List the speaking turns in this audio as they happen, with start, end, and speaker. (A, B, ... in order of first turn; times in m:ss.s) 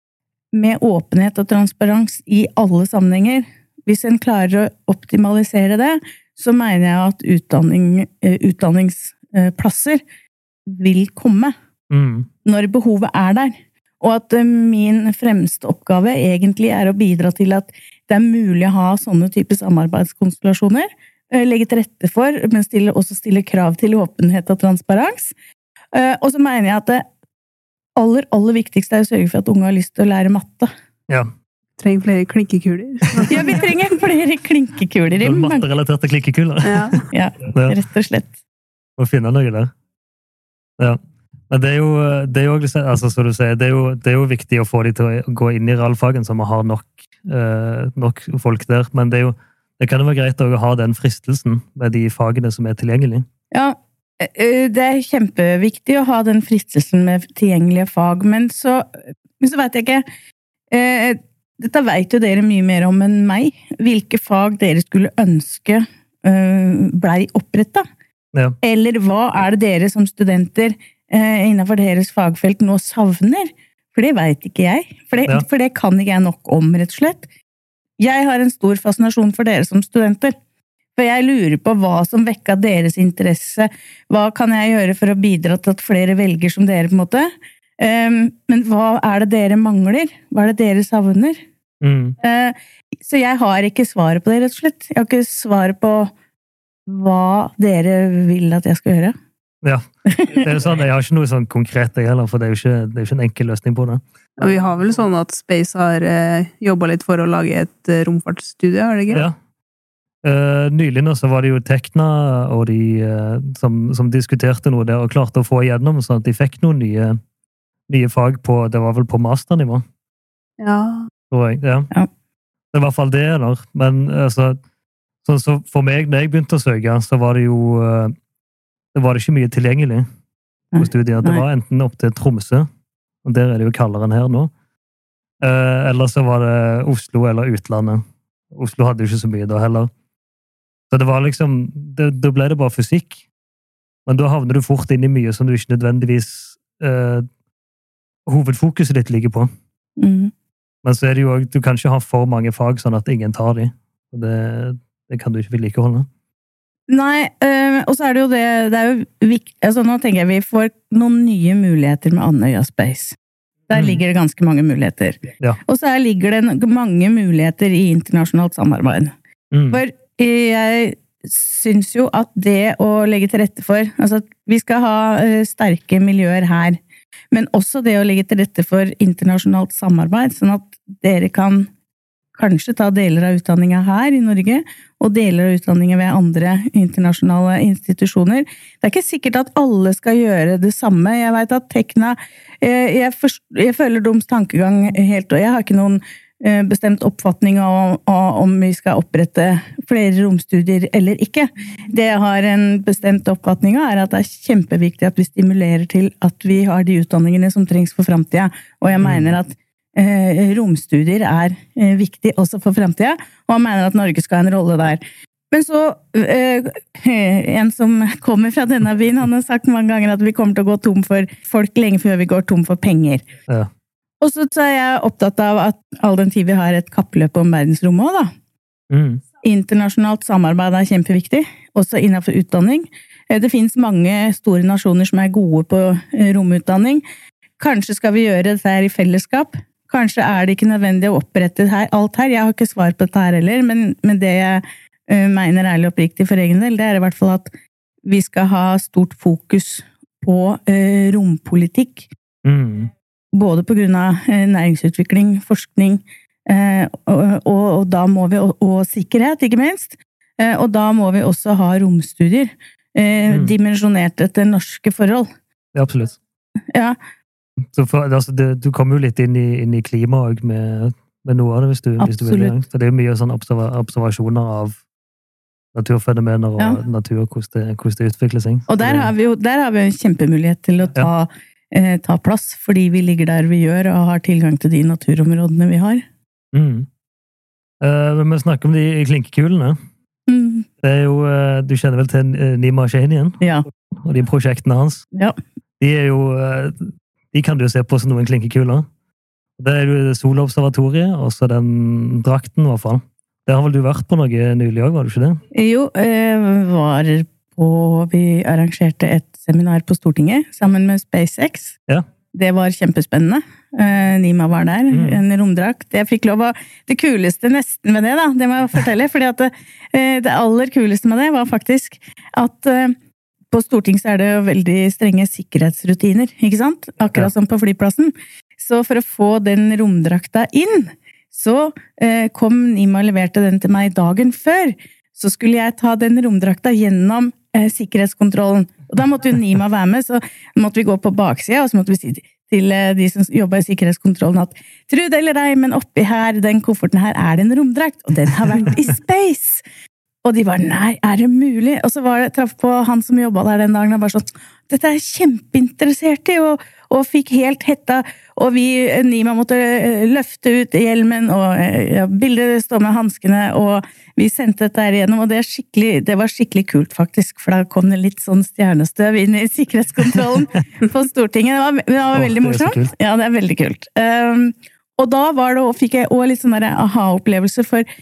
0:00.5-0:10.0 A
0:10.6-0:11.5 A
0:11.9-0:12.3 B
0:12.4-0:25.3 A
0:25.9-0:27.0 A
0:28.0-0:30.7 A
0:31.8-0:33.6 C
0:33.3-0:35.6 A
0:35.2-0:37.0 B
0:36.6-0:37.0 C
0:37.1-0:38.4 A
0:37.5-0:37.8 B
0:39.0-0:39.7 B
0:41.5-0:53.2 B
0:53.5-0:58.9 A
0:59.4-1:00.0 A
1:00.7-1:07.8 A
1:08.6-1:17.3 A
1:18.0-1:20.3 A
1:21.0-1:31.4 A
1:31.8-1:32.2 B
1:32.2-1:36.1 A
1:36.9-1:39.1 A
1:39.6-1:44.0 B
1:40.1-1:40.5 A
1:44.4-1:49.2 C
1:49.1-1:49.4 B
1:50.2-1:57.2 B
1:57.9-1:59.8 B
2:00.6-2:01.1 C
2:01.3-2:01.9 B
2:02.7-2:04.6 B
2:05.2-2:08.1 B
2:08.9-2:10.1 B
2:10.7-2:11.4 A
2:10.8-2:12.7 B
2:13.2-2:14.5 B
2:15.4-2:19.9 B
2:20.9-2:23.2 B
2:24.1-2:27.3 B
2:28.3-2:29.5 B
2:30.0-2:30.3 A
2:30.8-2:36.1 B
2:36.9-2:43.2 A
2:43.7-2:49.1 A
2:43.7-2:44.0 B
2:49.5-2:49.8 B
2:49.7-2:56.8 A
2:57.3-3:01.7 A
3:02.4-3:43.3 A
3:29.0-3:29.3 B
3:44.2-3:48.3 A
3:48.9-3:49.2 B
3:49.4-3:57.0 A
3:57.6-4:07.5 A
4:08.1-4:12.1 A
4:12.4-4:12.9 B
4:13.3-4:25.3 A
4:23.3-4:23.6 B
4:25.7-4:26.2 B
4:27.7-4:34.8 B
4:32.0-4:32.6 A
4:35.7-4:39.1 B
4:38.7-4:46.0 A
4:46.5-4:46.9 B
4:47.8-4:49.8 B
4:50.3-4:50.7 A
4:50.8-4:53.4 B
4:53.4-4:53.6 A
4:53.9-4:55.0 B
4:55.8-4:58.9 B
4:59.6-5:05.4 B
5:05.5-5:11.8 A
5:12.3-5:23.0 A
5:14.9-5:15.2 B
5:23.5-5:49.6 A
5:50.2-6:17.9 A
6:12.1-6:12.9 B